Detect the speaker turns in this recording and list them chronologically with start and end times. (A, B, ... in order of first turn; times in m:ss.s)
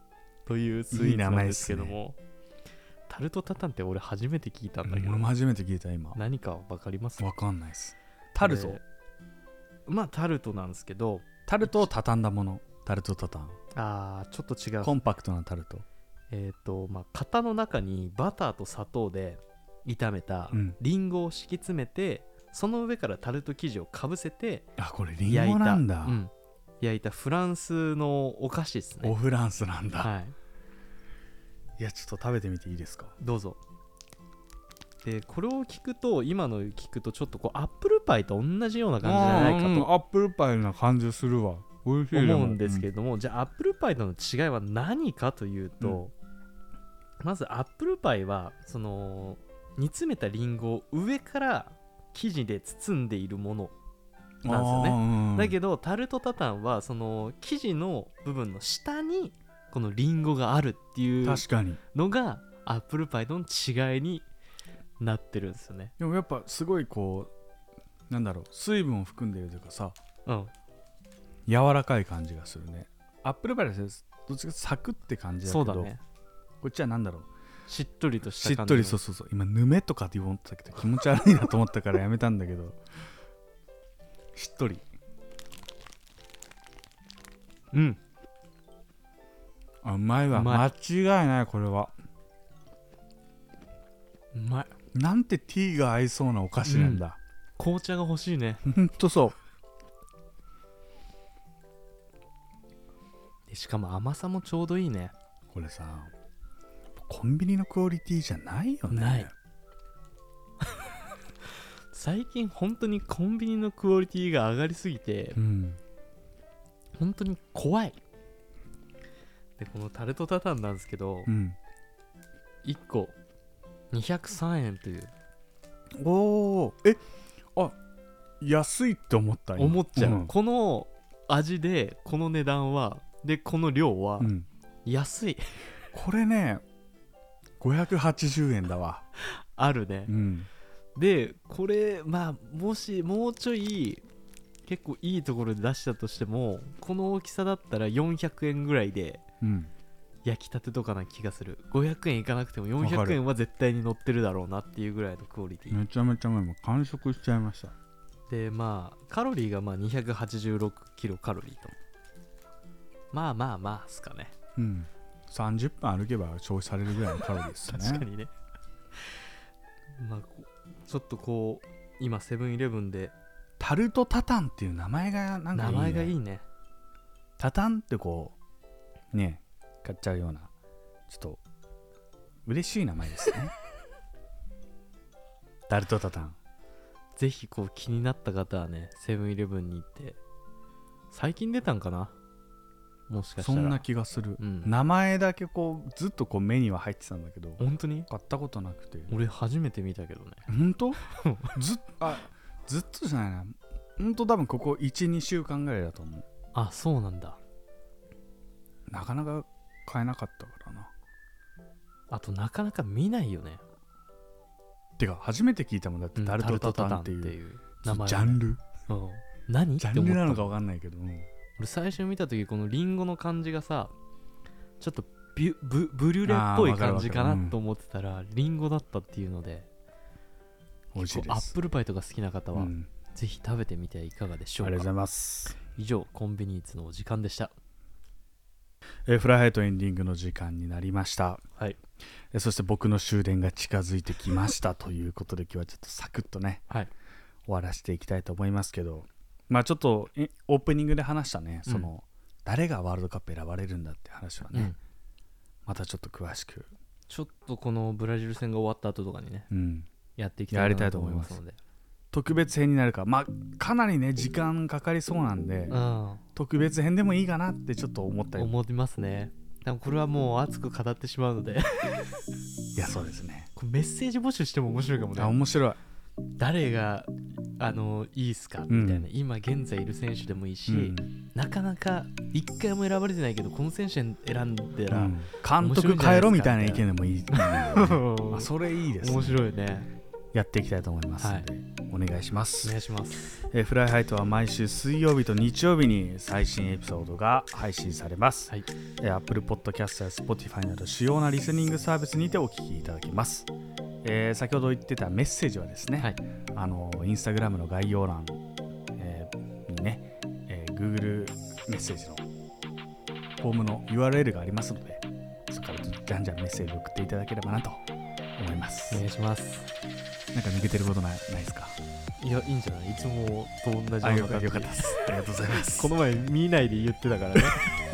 0:00.5-0:02.2 A
0:00.9-0:02.0 B
0:03.1-0:05.3 A
0:04.8-0:06.2 B
0:06.2-0:07.3 A
0:07.2-0:08.8 B
0:08.4-0:08.8 A
0:09.9-0:11.9 A
0:11.5-0:13.6 B
0:13.7-0:15.0 A
0:14.8-0:15.8 B
0:16.3-0:24.7 A
0:20.5-0:20.8 B
0:24.8-0:26.2 B
0:25.3-0:29.2 A
0:29.0-0:30.1 B
0:30.0-0:30.4 A
0:31.8-0:33.1 B
0:33.2-0:33.6 A
0:35.0-0:39.9 A
0:39.0-0:42.9 B
0:42.1-0:46.1 A
0:47.2-0:53.7 A
0:54.4-0:55.6 B
0:54.5-1:04.2 A
1:01.2-1:01.8 B
1:05.0-1:05.9 A
1:06.0-1:07.3 B
1:08.1-1:10.0 B
1:10.3-1:10.5 A
1:11.5-1:15.9 B
1:15.4-1:16.0 A
1:16.6-1:17.3 B
1:17.7-1:19.0 A
1:18.4-1:22.8 B
1:24.3-1:24.8 B
1:27.7-1:28.0 A
1:29.8-1:31.9 B
1:30.3-1:30.7 A
1:34.3-1:34.7 A
1:34.9-1:37.2 B
1:36.6-1:37.0 A
1:37.6-1:38.6 A
1:38.6-1:39.4 B
1:43.5-1:45.1 A
1:45.5-1:46.1 B
1:47.0-1:49.3 B
1:48.9-1:49.3 A
1:50.6-1:50.9 A
1:51.4-1:55.4 A
1:55.4-1:55.8 B
1:57.0-1:58.0 A
1:59.6-2:01.3 A
2:01.3-2:01.6 B
2:02.6-2:03.2 A
2:03.9-2:05.1 A
2:06.0-2:07.0 B
2:08.4-2:10.3 B
2:09.6-2:14.3 A
2:14.2-2:14.5 B
2:14.8-2:15.6 A
2:15.9-2:16.6 B
2:17.6-2:19.0 B
2:19.2-2:20.1 A
2:20.1-2:20.5 B
2:21.0-2:24.0 A
2:24.7-2:29.2 A
2:29.4-2:29.7 B
2:30.2-2:35.8 A
2:32.8-2:33.2 B
2:35.7-2:37.7 B
2:38.3-2:41.7 A
2:43.1-2:44.3 A
2:44.6-2:48.0 B
2:47.6-2:48.3 A
2:50.0-2:53.1 A
2:53.6-2:56.1 B
2:55.5-2:56.4 A
2:57.4-2:58.4 B
2:59.1-3:00.5 B
3:01.1-3:01.4 B
3:02.5-3:03.5 B
3:05.7-3:06.4 B
3:07.2-3:10.2 A
3:11.1-3:12.2 A
3:13.1-3:13.8 A
3:13.4-3:19.2 B
3:14.4-3:14.7 A
3:17.6-3:18.1 A
3:19.1-3:20.5 A
3:20.5-3:21.0 B
3:21.0-3:21.5 A
3:21.5-3:26.2 B
3:26.5-3:27.4 A
3:28.9-3:30.9 B
3:32.1-3:33.6 A
3:35.0-3:38.6 B
3:36.2-3:40.5 A
3:39.8-3:41.3 B
3:41.6-3:43.9 A
3:44.8-3:49.7 A
3:46.2-3:47.6 B
3:50.9-3:51.5 B
3:51.0-3:54.9 A
3:52.6-3:52.9 B
3:54.6-3:55.6 B
3:55.7-3:57.5 A
3:59.1-4:01.4 B
4:02.3-4:06.6 B
4:07.5-4:14.8 B
4:15.7-4:16.7 B
4:17.1-4:19.5 A
4:19.5-4:19.9 B
4:20.2-4:21.6 A
4:20.5-4:21.4 B
4:22.1-4:25.8 B
4:25.7-4:26.2 A
4:26.4-4:28.5 B
4:28.4-4:32.2 A
4:32.8-4:33.5 B
4:33.6-4:35.4 A
4:35.2-4:35.8 B
4:36.4-4:49.9 A
4:38.7-4:39.1 B
4:40.7-4:41.1 B
4:44.9-4:49.4 B
4:50.3-4:52.8 B
4:51.2-4:51.5 A
4:52.6-4:53.4 A
4:53.4-5:03.5 B
5:04.0-5:08.4 B
5:09.0-5:12.2 B
5:13.4-5:17.8 B
5:18.4-5:19.0 B
5:18.9-5:19.7 A
5:20.3-5:21.8 B
5:22.2-5:25.2 A
5:24.0-5:25.9 B
5:25.7-5:27.7 A